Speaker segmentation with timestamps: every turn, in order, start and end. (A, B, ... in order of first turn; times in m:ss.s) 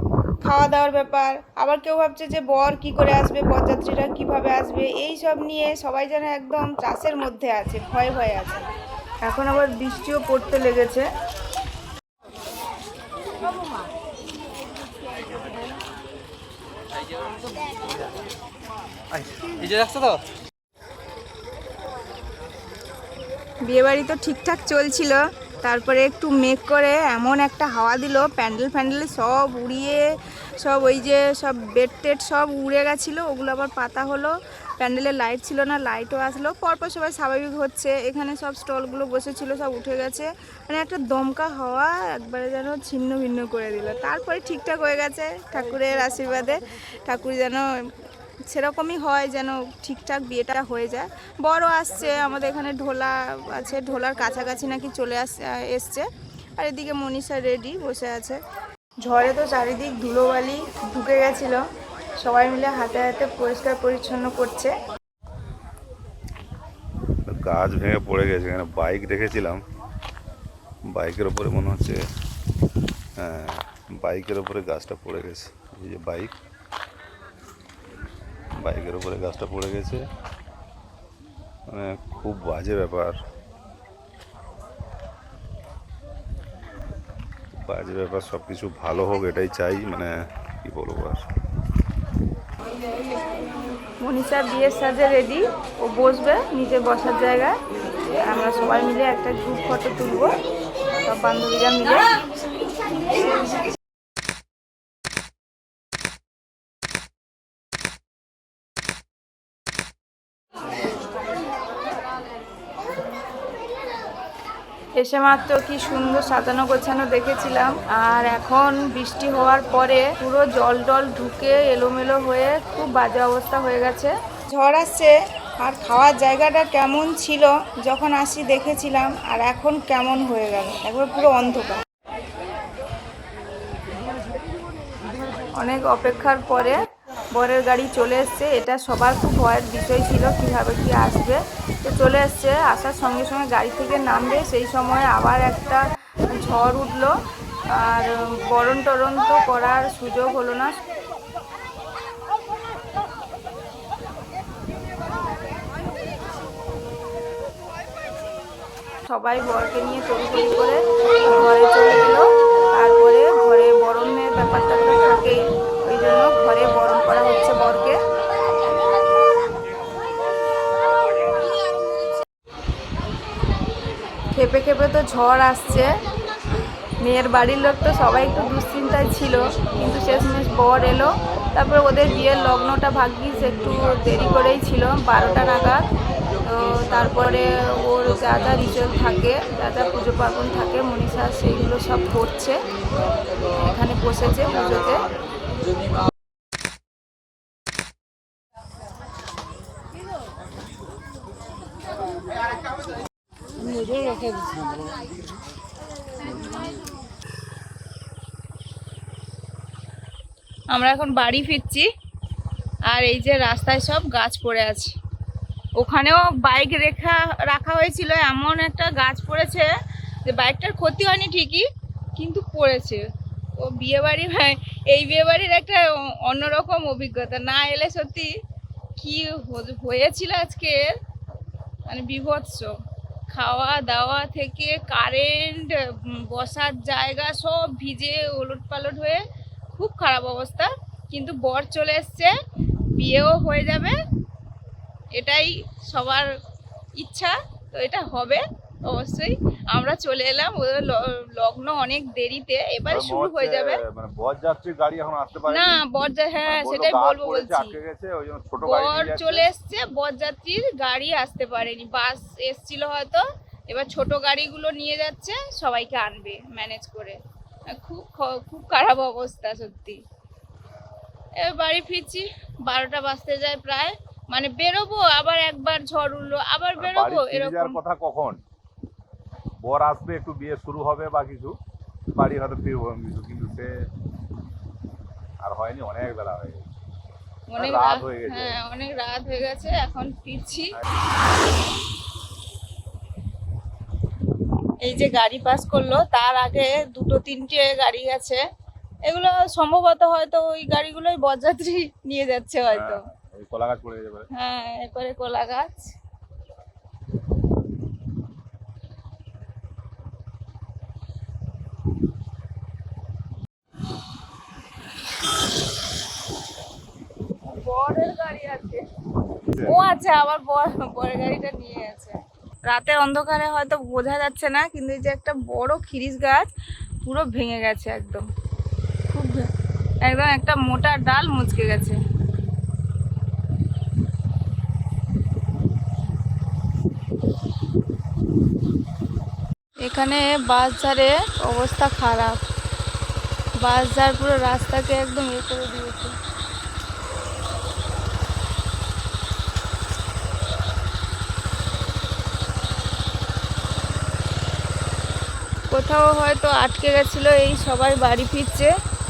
0:00.4-0:08.7 A
0:09.2-0:11.1 A
0:23.7-0:30.1 A
0:30.6-0:47.9 A
0:48.5-0:58.4 A
0:59.0-1:01.6 A
1:02.2-1:04.8 A
1:07.3-1:09.6 B
1:10.9-1:12.0 B
1:13.2-1:16.3 B
1:18.6-1:20.0 B
1:21.7-1:23.2 B
1:27.7-1:31.2 B
1:34.0-1:37.6 A
1:38.2-1:40.3 A
1:41.0-1:42.2 A
1:55.0-2:11.8 A
2:15.6-2:27.2 A
2:27.7-2:30.8 A
2:39.1-2:48.0 A
2:54.3-2:55.9 A
2:57.0-3:05.9 A
3:06.4-3:12.6 A
3:13.7-3:15.0 A
3:30.7-3:31.9 A
3:32.9-3:35.0 A
3:35.8-3:39.7 A
3:40.3-3:41.6 A
3:42.2-3:43.0 A
3:43.6-3:48.3 A
3:49.0-3:50.9 A
3:51.9-3:52.7 A
3:53.3-3:59.2 A
3:59.8-4:02.3 A
4:03.0-4:04.0 A
4:05.2-4:06.3 A
4:07.0-4:13.8 A
4:12.9-4:15.8 B
4:15.5-4:17.8 A
4:16.4-4:19.5 B
4:18.6-4:27.2 A
4:27.7-4:30.0 A
4:31.4-4:37.8 A
4:36.8-4:38.4 B
4:39.6-4:41.6 B
4:42.2-4:43.7 B
4:45.4-4:46.6 B
4:47.5-4:50.7 A
4:47.6-4:48.6 B
4:54.8-4:58.4 A
4:59.1-5:03.0 A
5:02.7-5:04.3 B
5:04.3-5:06.0 A
5:17.5-5:18.8 A
5:19.5-5:19.8 B
5:19.6-5:26.5 A
5:27.0-5:28.3 A
5:29.1-5:29.5 A
5:30.0-5:32.0 A
5:39.9-5:42.4 A
5:43.6-5:46.2 A
5:55.7-5:58.7 A